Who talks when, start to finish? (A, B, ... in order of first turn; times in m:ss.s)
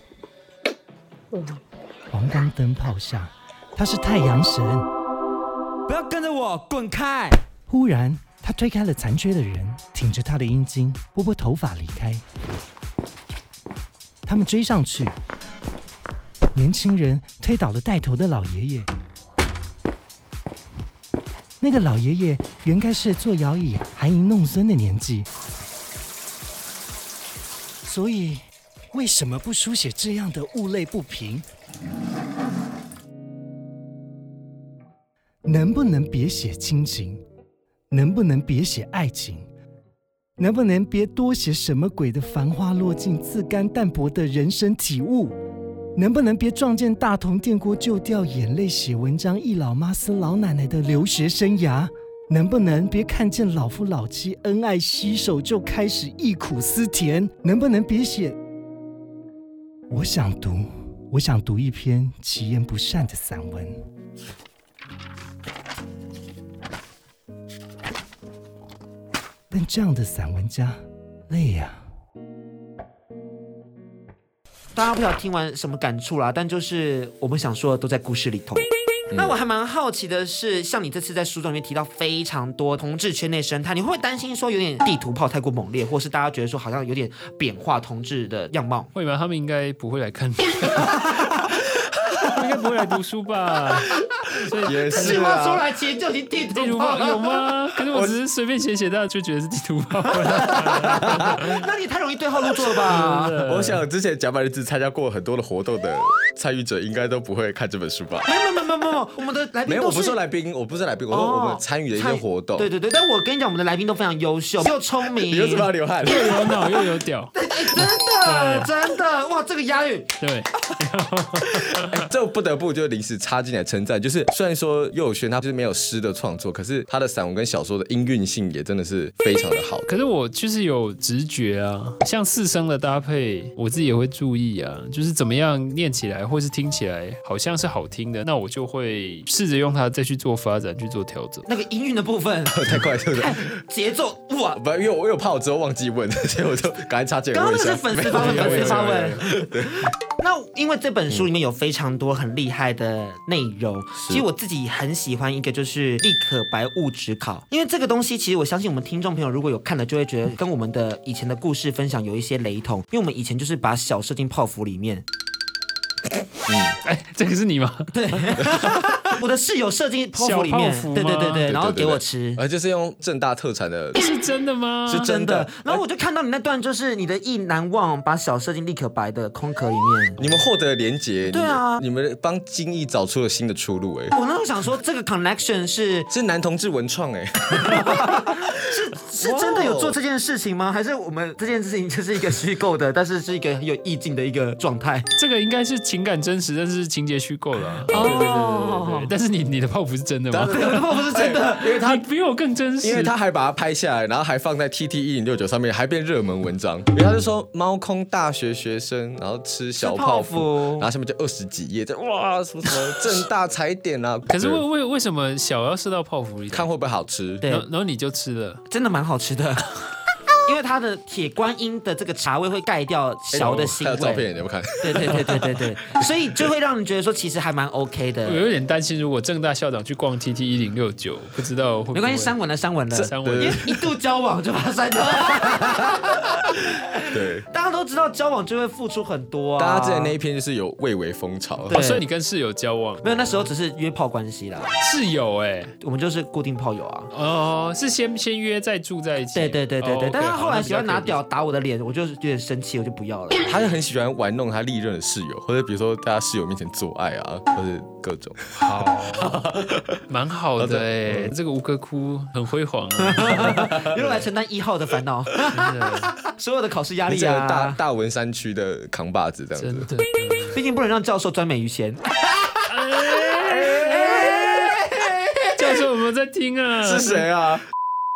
0:02.1-0:04.9 A
0:05.9-0:07.4 B
0:07.7-0:12.2 A
0:14.2-0:15.2 A
0:16.5-0:18.9 A
0:21.6-0:25.3 A
0:27.8-0:31.4 A
0:35.4-0:37.2 A
0:37.9-0:39.5 A
0:40.4-0:45.4 A
0:45.9-0:58.4 A
0:59.9-1:03.8 A
1:09.5-1:11.8 A
1:14.7-1:28.9 B
1:28.9-1:31.1 C
1:32.2-1:35.2 C
1:34.6-1:35.6 D
1:34.9-1:37.2 B
1:36.5-1:41.6 C
1:40.4-1:43.4 B
1:40.8-1:41.2 D
1:42.9-1:43.8 C
1:42.9-1:48.3 D
1:48.2-1:50.2 B
1:49.7-1:52.7 D
1:51.1-1:55.7 B
1:55.2-1:56.4 D
1:56.0-1:58.7 C
1:57.3-2:00.1 B
2:00.2-2:02.0 C
2:01.8-2:09.9 D
2:09.9-2:21.5 C
2:21.5-2:24.6 B
2:22.5-2:23.5 D
2:24.6-2:29.9 D
2:27.3-2:29.5 B
2:28.1-2:29.2 C
2:30.2-2:45.0 B
2:34.0-2:34.2 D
2:46.5-2:46.8 D
2:46.8-2:48.5 C
2:47.9-2:52.4 B
2:50.2-2:51.5 C
2:51.5-2:54.0 D
2:54.0-2:55.1 C
2:54.9-2:55.8 D
2:55.0-3:00.3 B
3:00.2-3:04.1 D
3:01.3-3:01.8 B
3:04.1-3:06.1 B
3:06.1-3:08.6 D
3:07.5-3:15.0 B
3:09.2-3:10.0 D
3:15.1-3:20.8 C
3:17.9-3:18.2 D
3:17.9-3:19.1 B
3:20.3-3:22.0 D
3:20.5-3:21.7 B
3:21.8-3:23.1 C
3:22.8-3:34.6 D
3:29.8-3:30.9 B
3:34.3-3:36.7 C
3:36.5-3:37.4 D
3:37.5-3:38.6 C
3:38.7-3:39.8 B
3:40.4-3:44.2 B
3:43.3-3:45.6 D
3:43.4-3:43.7 C
3:44.8-3:48.4 B
3:48.2-3:52.4 C
3:51.9-3:57.0 B
3:52.9-3:53.8 D
3:53.0-3:53.6 C
3:57.1-3:57.4 D
3:57.5-4:00.1 B
3:59.6-4:01.8 D
4:01.7-4:02.0 B
4:01.7-4:03.4 C
4:03.0-4:04.7 B
4:04.8-4:05.7 C
4:05.8-4:07.1 B
4:07.1-4:11.2 C
4:09.3-4:13.8 B
4:13.4-4:18.5 D
4:18.6-4:19.4 C
4:19.1-4:20.0 D
4:20.1-4:23.6 C
4:20.6-4:21.3 D
4:23.0-4:27.8 B
4:23.3-4:24.2 D
4:25.5-4:26.1 C
4:27.1-4:29.9 D
4:29.6-4:30.6 C
4:30.5-4:32.7 B
4:32.7-4:34.3 C
4:33.5-4:34.5 D
4:33.7-4:35.8 B
4:35.5-4:37.2 C
4:36.8-4:37.6 D